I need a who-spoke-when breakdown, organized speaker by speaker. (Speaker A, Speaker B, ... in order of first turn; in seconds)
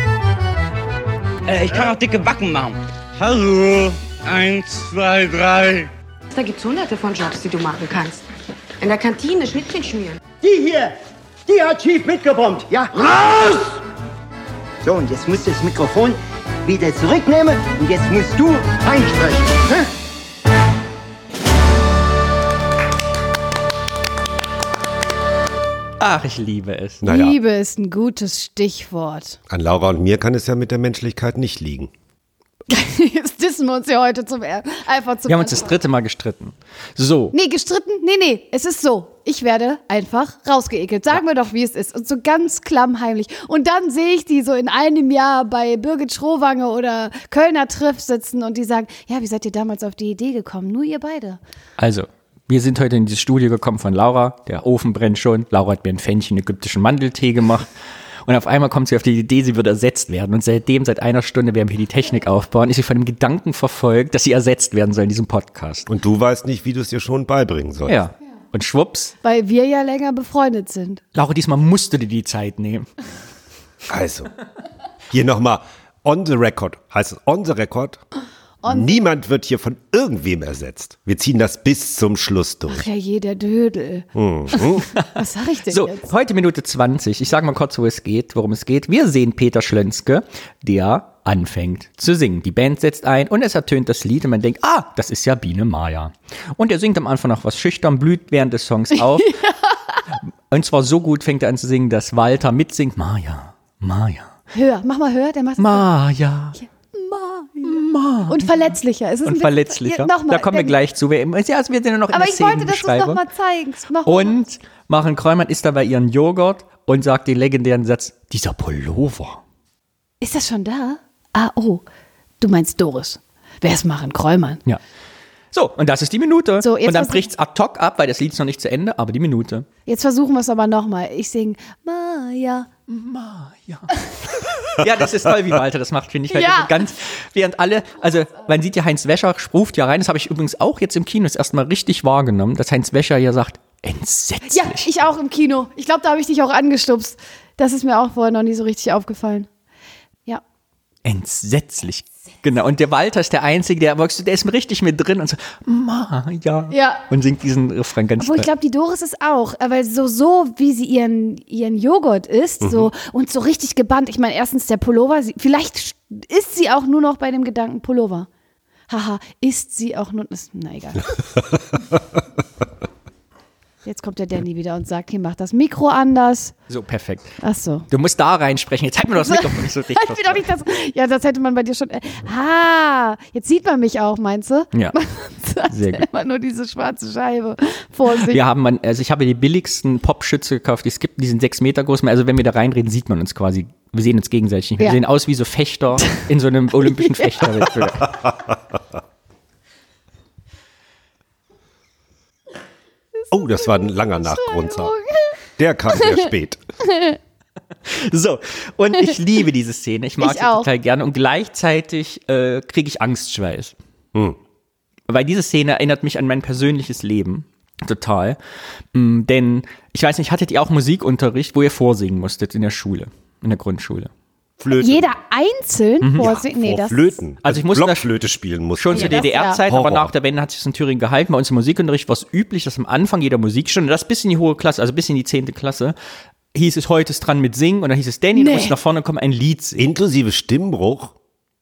Speaker A: 1.5-5.9
Speaker B: 6.3-8.2, 8.8-10.2
Speaker C: 10.4-10.9, 11.5-13.2, 14.8-19.8
Speaker D: 26.0-27.0, 35.3-37.3, 51.8-57.7, 58.2-65.9, 67.8-69.1, 71.1-72.9, 84.9-99.4, 100.2-104.3, 105.6-106.6, 107.6-108.5, 109.2-113.2, 114.0-119.4, 125.5-129.7, 132.9-144.9, 151.0-158.5, 176.7-177.4, 177.9-180.5, 185.7-186.1, 188.2-198.3, 207.9-213.8, 215.1-218.4, 218.9-224.1, 226.0-226.3, 227.4-228.1, 228.8-235.9, 236.5-239.8
Speaker E: 27.0-27.3, 29.5-31.9, 65.9-68.0, 73.9-74.3, 75.1-78.0, 78.6-82.9, 84.1-84.9, 162.6-162.9, 203.3-204.9, 205.6-206.6, 224.6-225.2, 226.2-230.1, 239.8-241.1
Speaker F: 27.0-29.4, 32.7-35.8, 37.3-51.4, 69.2-71.0, 78.6-79.0, 82.7-86.1, 98.9-100.0, 104.5-105.9, 106.6-110.8, 112.1-114.4, 120.2-121.8, 122.4-124.6, 126.6-127.3, 129.8-132.7, 136.3-136.8, 144.5-149.5, 156.7-157.0, 158.2-168.3, 168.9-171.2, 173.8-176.5, 177.4-177.9, 179.2-188.4, 203.4-205.4, 205.9-206.3, 206.8-207.2, 210.2-210.7, 224.7-227.2, 228.9-229.6, 238.3-238.7